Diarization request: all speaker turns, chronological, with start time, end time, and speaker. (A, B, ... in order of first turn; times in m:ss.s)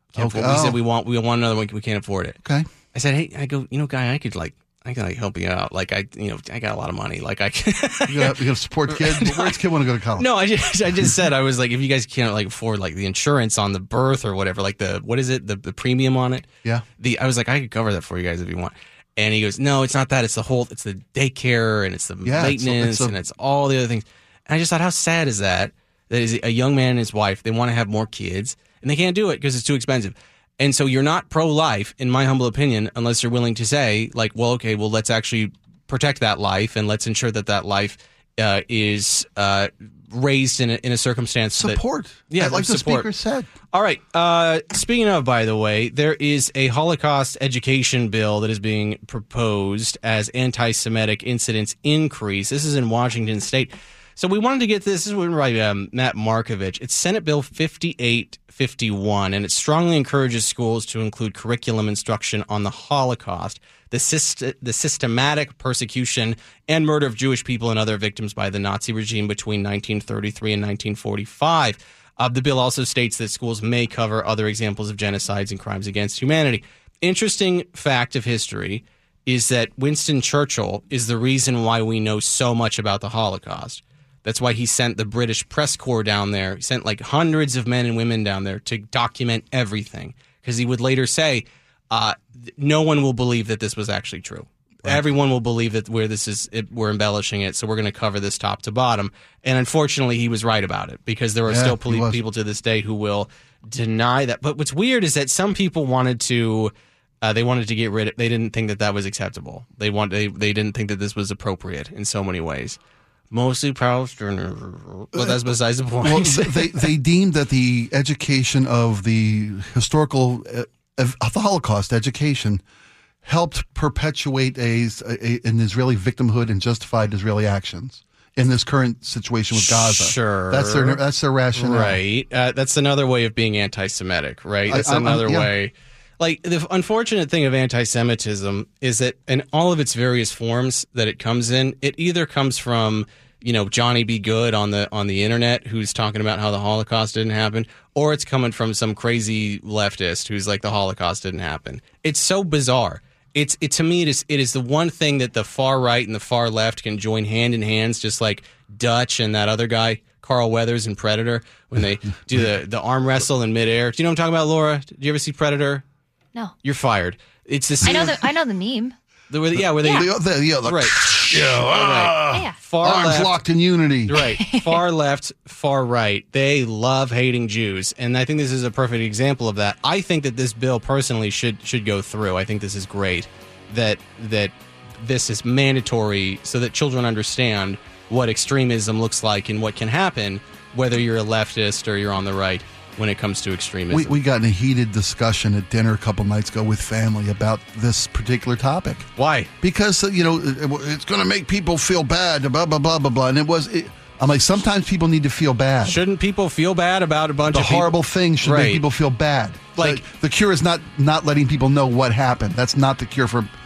0:00.2-0:00.8 A
0:00.2-0:02.4 B
0:02.9-0:09.6 B
0:08.1-0:10.3 A
0:10.2-0:16.5 B
0:17.0-0:43.1 B
0:22.2-0:23.2 A
0:41.6-0:43.5 A
0:43.7-1:52.8 B
1:41.5-1:42.2 A
1:53.3-1:56.9 B
1:55.1-1:55.4 A
1:56.0-2:02.6 A
2:03.2-2:12.0 A
2:09.6-2:11.0 B
2:11.6-2:45.8 B
2:14.7-2:15.5 A
2:46.6-2:48.2 B
2:47.8-2:48.9 C
2:49.3-2:50.1 B
2:49.6-2:54.1 A
2:50.6-2:53.4 B
2:52.3-2:52.6 C
2:54.1-3:14.2 B
2:54.1-2:54.8 C
3:13.9-3:19.1 A
3:19.2-3:19.5 B
3:19.6-3:26.0 A
3:25.8-3:28.8 B
3:27.5-3:33.5 A
3:29.8-3:30.0 B